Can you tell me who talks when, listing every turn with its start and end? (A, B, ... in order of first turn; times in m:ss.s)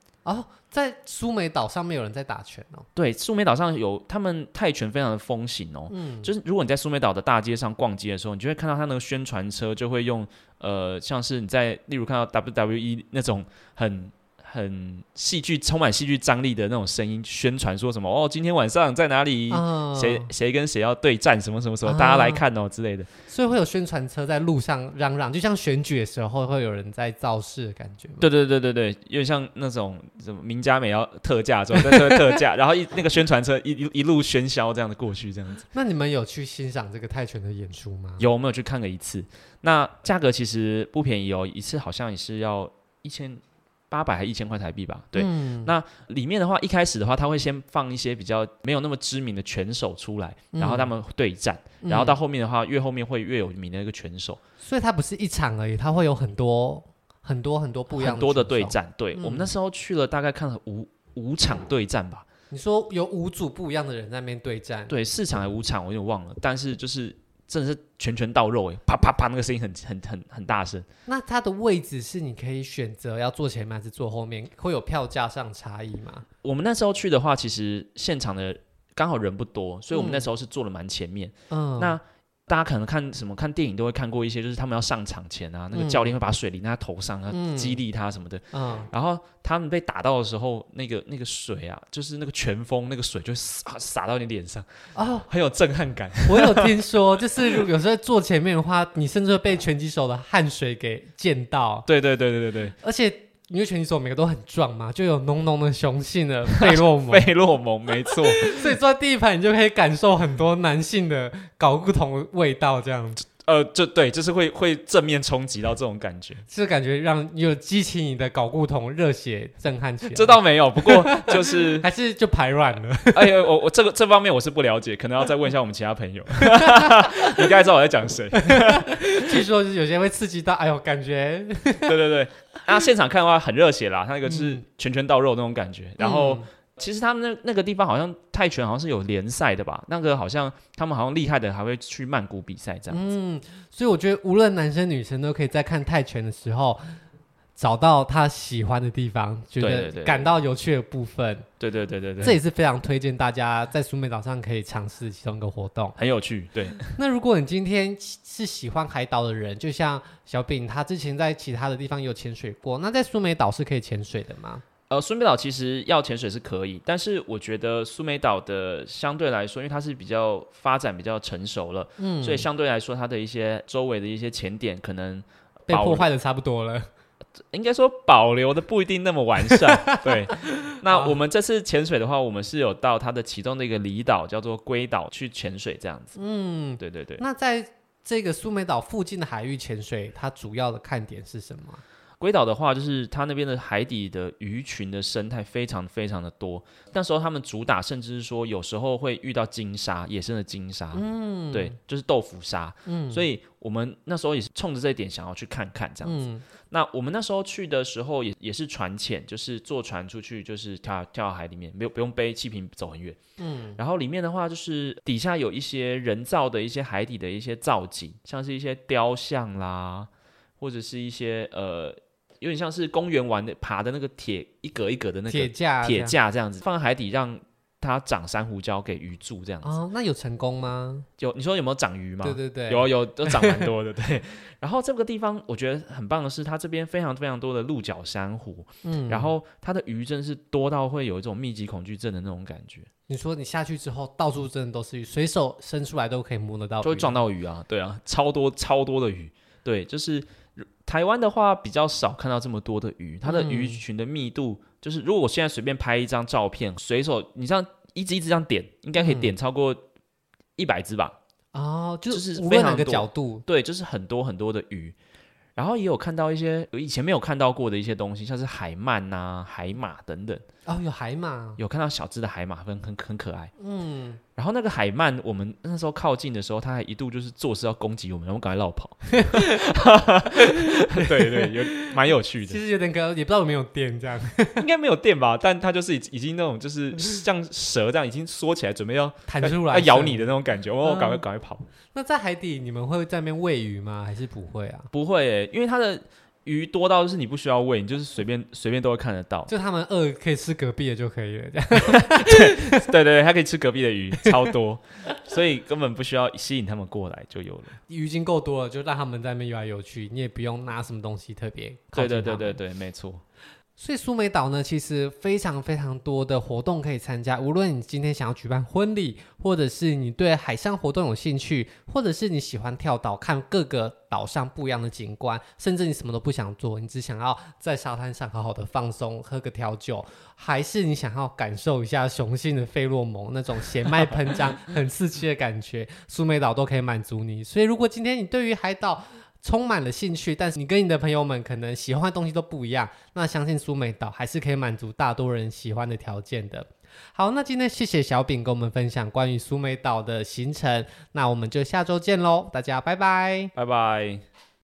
0:00.2-0:02.9 A
0:03.0-0:23.1 B
0:05.9-0:06.3 A
0:19.5-0:20.3 A
0:21.8-0:22.4 A
0:23.3-0:28.3 A
0:28.2-0:35.6 B
0:31.8-0:32.2 A
0:35.7-0:38.3 A
0:38.2-0:54.4 B
0:45.2-0:45.7 A
0:50.5-0:50.9 A
0:51.8-0:52.2 A
0:54.6-0:59.5 A
0:57.9-1:02.3 B
1:02.5-1:05.0 A
1:04.9-1:10.9 B
1:11.1-1:16.3 A
1:16.4-1:34.7 B
1:19.9-1:20.3 A
1:21.5-1:22.0 A
1:25.7-1:26.1 A
1:27.3-1:27.8 A
1:28.5-1:28.9 A
1:35.0-1:35.3 A
1:35.3-1:36.7 B
1:36.3-1:41.9 A
1:41.9-1:42.8 B
1:42.8-1:47.3 A
1:46.6-1:48.8 B
1:48.1-1:53.2 A
1:53.4-1:56.4 B
1:56.5-2:03.4 A
2:00.1-2:01.9 B
2:03.1-2:09.5 B
2:06.4-2:07.5 A
2:08.3-2:12.0 A
2:11.8-2:23.1 B
2:14.2-2:14.6 A
2:16.0-2:16.5 A
2:22.9-2:27.0 A
2:27.6-2:31.5 A
2:29.6-2:30.4 B
2:31.6-2:32.4 B
2:32.2-2:36.0 A
2:36.0-2:36.9 B
2:37.0-2:44.6 A
2:44.9-2:56.1 B
2:52.0-2:52.5 A
2:55.7-2:56.9 A
2:57.5-3:06.2 B
2:59.5-3:01.2 A
3:06.2-3:11.8 A
3:06.8-3:07.2 B
3:12.2-3:33.2 B
3:20.9-3:21.8 A
3:22.9-3:23.3 A
3:26.0-3:26.4 A
3:33.4-3:33.8 A
3:33.8-3:49.7 B
3:45.3-3:46.2 A
3:49.6-3:51.1 A
3:51.2-4:02.9 B
3:52.2-3:53.7 A
3:58.8-3:59.3 A
4:03.1-4:07.2 A
4:06.8-4:19.8 B
4:13.2-4:13.8 A
4:19.0-4:19.4 A
4:20.6-4:21.2 B
4:21.5-4:23.4 A
4:22.1-4:25.0 B
4:25.6-4:30.4 B
4:30.7-4:31.6 A
4:31.6-4:33.5 B
4:33.6-4:34.2 A
4:34.4-4:42.6 B
4:39.1-4:44.6 A
4:44.6-4:51.7 B
4:49.3-4:51.2 A
4:51.9-4:54.9 A
4:54.9-4:59.5 B
4:59.5-5:02.9 A
5:01.8-5:07.8 B
5:07.9-5:12.6 A
5:12.0-5:13.2 B
5:13.8-5:53.5 A
5:53.6-5:54.2 B